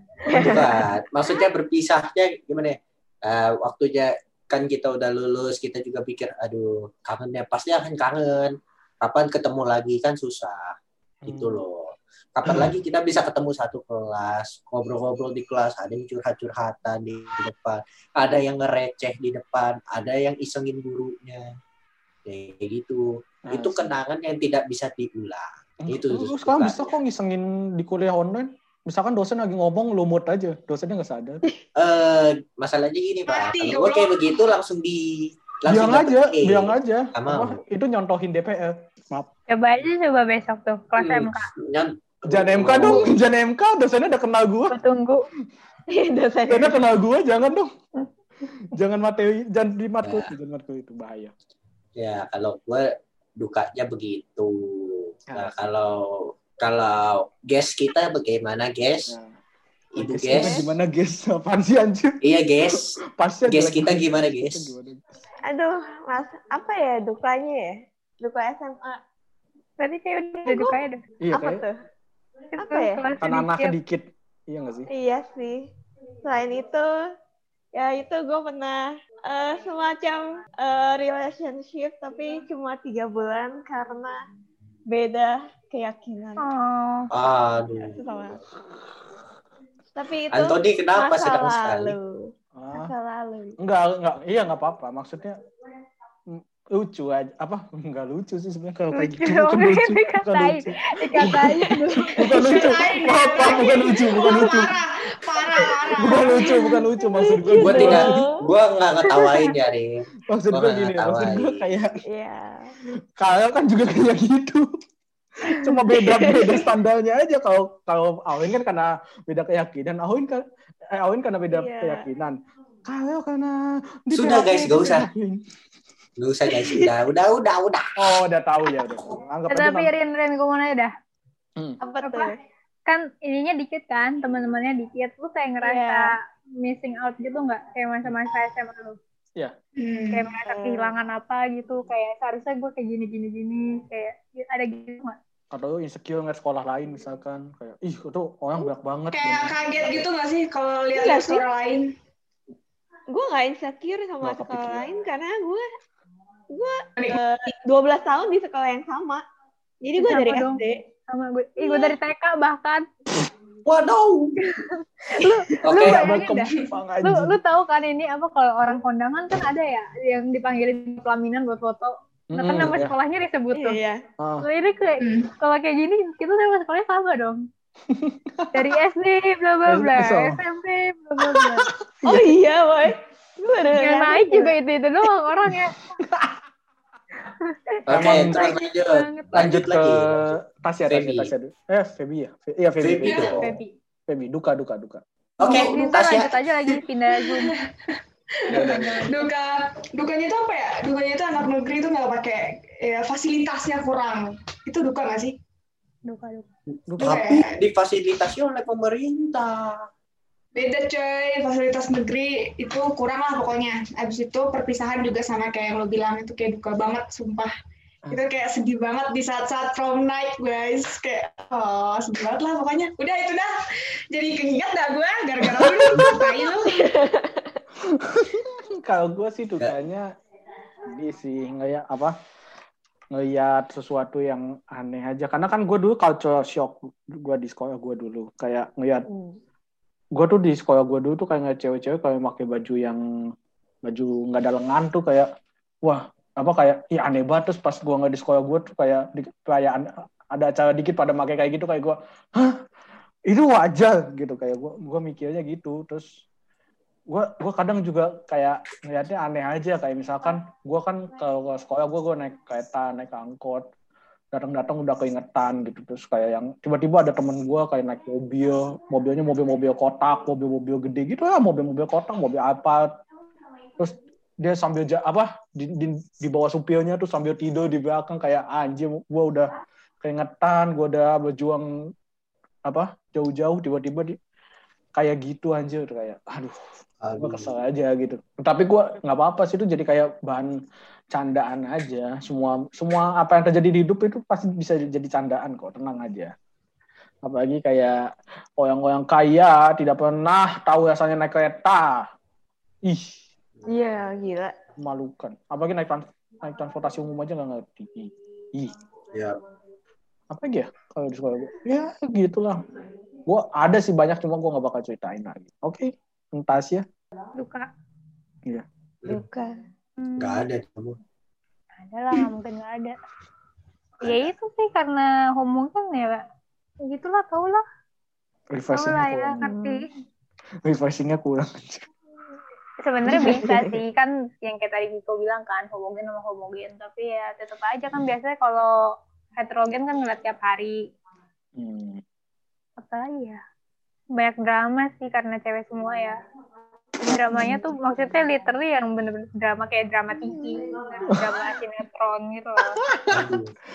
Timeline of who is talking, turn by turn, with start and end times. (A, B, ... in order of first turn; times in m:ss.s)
0:00.2-0:00.8 A
0:00.3-0:10.7 B
0:11.2-0:11.6 C
0:11.2-0:21.4 B
0:12.4-0:12.7 C
0:22.2-0:27.0 B
0:23.5-0:24.0 C
0:25.8-0:31.4 C
0:31.8-0:37.6 B
0:33.3-0:34.2 D
0:35.6-0:39.3 C
0:39.5-0:41.5 E
0:41.0-0:43.1 B
0:42.2-0:44.8 C
0:44.7-0:45.2 E
0:45.9-0:46.8 A
0:46.5-0:47.7 C
0:48.6-0:51.3 C
0:50.0-0:50.3 B
0:52.0-0:59.1 B
0:59.1-0:59.3 C
0:59.9-1:00.5 B
1:00.0-1:05.2 C
1:02.2-1:03.0 B
1:03.5-1:04.7 B
1:05.4-1:09.0 A
1:09.8-1:11.0 E
1:10.4-1:10.8 A
1:11.2-1:11.6 C
1:11.3-1:11.7 A
1:12.6-1:13.7 E
1:12.6-1:13.1 A
1:13.2-1:14.9 C
1:14.9-1:15.7 A
1:16.2-1:16.9 A
1:17.7-1:24.2 A
1:24.9-1:26.4 A
1:26.4-1:27.1 E
1:27.1-1:28.0 B
1:27.8-1:28.4 A
1:29.9-1:33.6 A
1:30.3-1:32.0 B
1:32.6-1:32.9 C
1:33.6-1:35.4 C
1:36.3-1:44.8 C
1:38.9-1:42.5 E
1:41.2-1:42.6 A
1:42.3-1:46.4 D
1:46.0-1:48.3 C
1:46.4-1:48.4 A
1:47.6-1:51.6 B
1:49.1-1:49.5 E
1:50.3-1:52.0 C
1:52.0-1:52.7 A
1:53.2-1:54.6 C
1:55.4-2:05.4 C
1:55.9-1:56.7 A
2:01.5-2:02.0 A
2:04.1-2:05.1 B
2:06.2-2:07.9 B
2:06.6-2:06.9 A
2:08.0-2:09.9 C
2:09.5-2:10.9 E
2:11.8-2:12.4 A
2:12.0-2:19.0 E
2:15.6-2:16.1 A
2:19.8-2:20.3 D
2:20.1-2:25.2 E
2:20.4-2:20.9 A
2:25.5-2:30.0 C
2:29.1-2:31.9 D
2:30.9-2:31.4 A
2:33.1-2:35.6 A
2:34.2-2:34.9 C
2:36.5-2:39.2 A
2:39.8-2:40.8 A
2:40.0-2:42.8 E
2:41.6-2:42.0 A
2:43.6-2:44.6 B
2:44.4-2:46.5 E
2:45.6-2:46.0 B
2:45.8-2:47.3 C
2:47.0-2:53.8 E
2:52.3-2:52.9 C
2:53.5-2:54.0 A
2:54.2-2:54.5 C
2:54.4-2:57.4 E
2:55.0-2:55.3 D
2:57.9-2:58.7 C
2:58.5-3:01.7 E
2:59.7-3:00.4 C
3:01.2-3:02.3 C
3:02.0-3:04.5 A
3:03.7-3:05.8 E
3:05.5-3:06.4 C
3:07.9-3:10.4 B
3:07.9-3:08.6 C
3:08.1-3:09.3 E
3:09.3-3:13.4 C
3:10.9-3:11.3 B
3:12.8-3:13.5 B
3:13.1-3:13.7 E
3:14.1-3:15.0 C
3:15.4-3:16.7 B
3:15.4-3:15.8 D
3:15.4-3:17.6 E
3:17.2-3:25.4 D
3:18.6-3:19.3 E
3:18.6-3:18.9 C
3:26.1-3:26.4 E
3:26.9-3:27.2 C
3:27.0-3:27.6 D
3:27.0-3:29.8 B
3:30.5-3:37.5 D
3:38.1-3:43.5 D
3:44.1-3:46.9 D
3:45.6-3:46.2 C
3:46.6-3:47.6 A
3:47.8-3:50.1 C
3:50.9-3:52.1 C
3:53.1-3:59.0 C
3:59.1-3:59.4 A
4:00.1-4:03.0 C
4:03.8-4:05.3 C
4:05.8-4:12.6 C
4:13.3-4:16.0 C
4:17.1-4:23.6 C
4:24.3-4:32.9 C
4:33.8-4:41.7 C
4:42.6-4:44.2 C
4:44.9-4:46.6 C
4:47.0-4:47.6 B
4:47.2-4:50.5 C
4:51.1-4:56.3 C
4:57.2-5:02.1 C
5:02.8-5:03.2 C
5:03.7-5:04.5 A
5:04.8-5:08.7 C
5:10.3-5:12.6 C
5:13.3-5:16.8 C
5:17.4-5:17.7 E
5:19.1-5:19.5 A
5:20.0-5:20.4 E
5:20.2-5:21.0 B
5:21.8-5:23.0 E
5:24.0-5:26.2 E
5:24.0-5:24.3 B
5:26.8-5:27.6 E
5:28.5-5:29.4 C
5:28.7-5:29.9 E
5:29.4-5:29.8 A
5:30.6-5:31.8 C
5:32.8-5:38.7 E
5:33.1-5:33.8 A
5:39.4-5:40.8 E
5:41.6-5:42.0 C
5:42.8-5:43.4 E
5:44.1-5:46.1 E
5:47.0-5:52.8 E
5:52.7-5:53.3 C
5:53.1-5:53.5 B